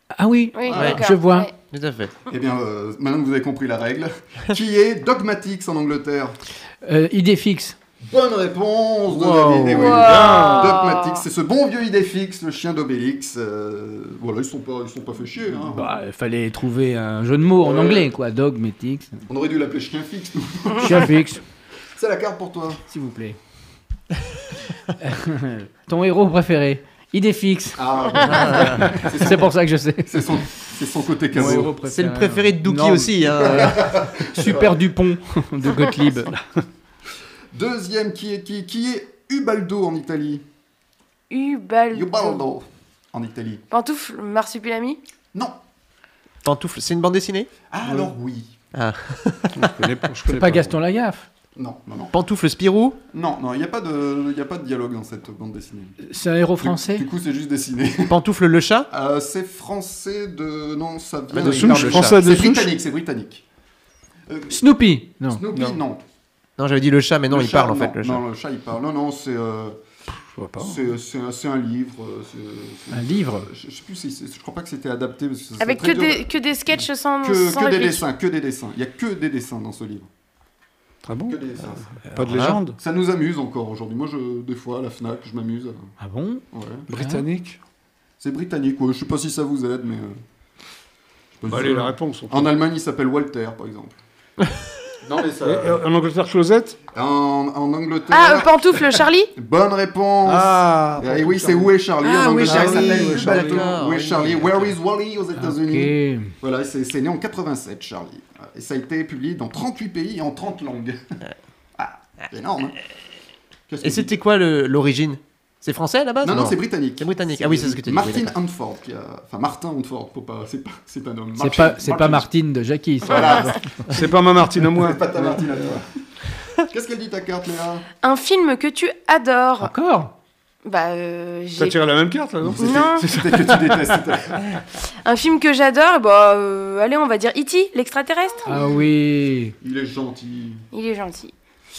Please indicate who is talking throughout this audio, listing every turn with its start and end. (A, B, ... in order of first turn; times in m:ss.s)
0:00.1-0:01.5 A
0:00.5-0:01.5 B
0:00.7-0:01.0 C
0:01.5-0:02.1 C
0:02.3-0:06.4 D
0:06.8-0:07.8 A
0:08.0-0:15.9 D
0:09.1-0:09.9 A
0:09.7-0:11.2 B
0:09.9-0:10.8 E
0:15.7-0:19.2 A
0:17.6-0:18.1 D
0:19.3-0:21.2 D
0:20.8-0:21.4 A
0:21.9-0:22.8 D
0:22.9-0:23.4 A
0:25.0-0:27.8 A
0:27.8-0:31.7 D
0:28.2-0:28.8 C
0:28.8-0:30.3 A
0:31.3-0:36.3 A
0:31.9-0:33.8 C
0:33.4-0:34.8 D
0:37.5-0:40.4 D
0:41.3-0:42.4 B
0:41.9-0:43.6 D
0:43.7-0:45.0 B
0:46.4-0:47.5 C
0:47.7-0:48.5 D
0:48.7-0:49.5 C
0:49.5-0:50.8 E
0:50.2-0:51.3 A
0:51.6-0:52.1 D
0:52.1-0:53.0 C
0:53.1-0:56.0 D
0:56.0-0:57.0 A
0:56.6-0:58.2 D
0:58.1-0:58.9 C
0:58.9-1:03.4 D
1:01.3-1:02.2 C
1:01.4-1:02.7 E
1:04.3-1:04.6 D
1:04.5-1:05.4 A
1:05.3-1:06.0 D
1:05.5-1:05.8 E
1:06.6-1:08.2 C
1:07.3-1:09.8 D
1:10.4-1:10.8 E
1:10.6-1:20.1 D
1:12.9-1:13.5 A
1:15.6-1:18.0 B
1:21.1-1:21.4 E
1:21.3-1:21.9 D
1:22.1-1:22.6 C
1:22.1-1:22.8 E
1:22.8-1:25.9 D
1:26.0-1:27.2 A
1:26.5-1:26.8 D
1:26.9-1:27.6 E
1:28.2-1:30.2 D
1:31.4-1:34.0 D
1:31.5-1:32.4 E
1:35.0-1:35.8 D
1:35.4-1:36.8 E
1:36.9-1:38.6 D
1:38.1-1:39.3 B
1:39.4-1:51.0 D
1:40.2-1:43.8 E
1:42.3-1:44.8 C
1:45.4-1:46.3 A
1:51.8-1:52.8 D
1:53.7-1:54.2 D
1:53.8-1:58.3 C
1:56.2-2:02.3 D
2:01.4-2:03.8 A
2:03.0-2:04.0 D
2:03.9-2:05.0 E
2:04.8-2:05.8 D
2:06.7-2:07.8 D
2:08.0-2:09.7 B
2:09.6-2:10.1 A
2:10.6-2:11.8 B
2:11.6-2:13.8 E
2:12.4-2:14.4 D
2:12.6-2:13.0 B
2:15.0-2:18.4 B
2:18.4-2:18.8 D
2:18.4-2:19.6 A
2:19.6-2:20.6 D
2:20.7-2:21.3 B